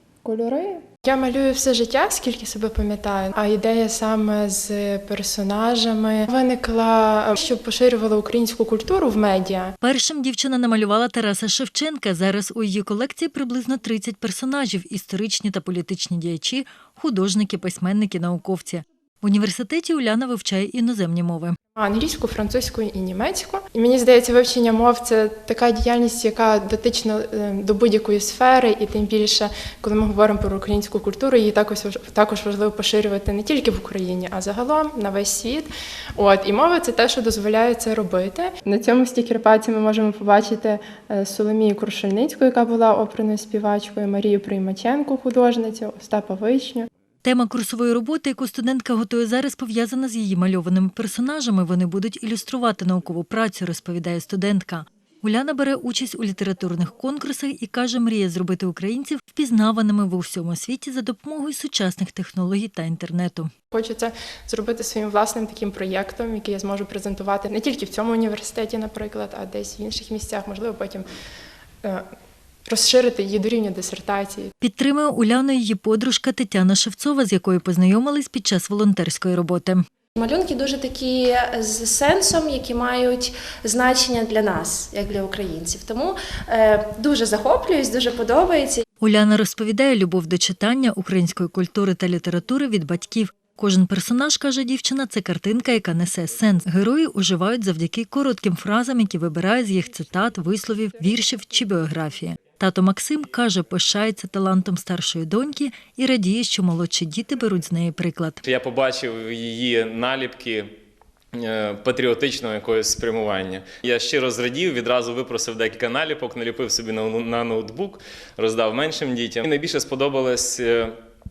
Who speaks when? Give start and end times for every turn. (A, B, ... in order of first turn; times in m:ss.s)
0:00.2-0:09.7 A
0:09.8-0:21.6 B
0:21.8-0:46.9 A
0:47.2-1:03.5 B
1:03.7-1:11.0 A
1:12.7-1:14.5 A
1:14.6-1:19.8 B
1:20.2-1:28.8 C
1:29.0-1:48.4 B
1:48.4-1:50.8 D
1:51.3-2:01.0 D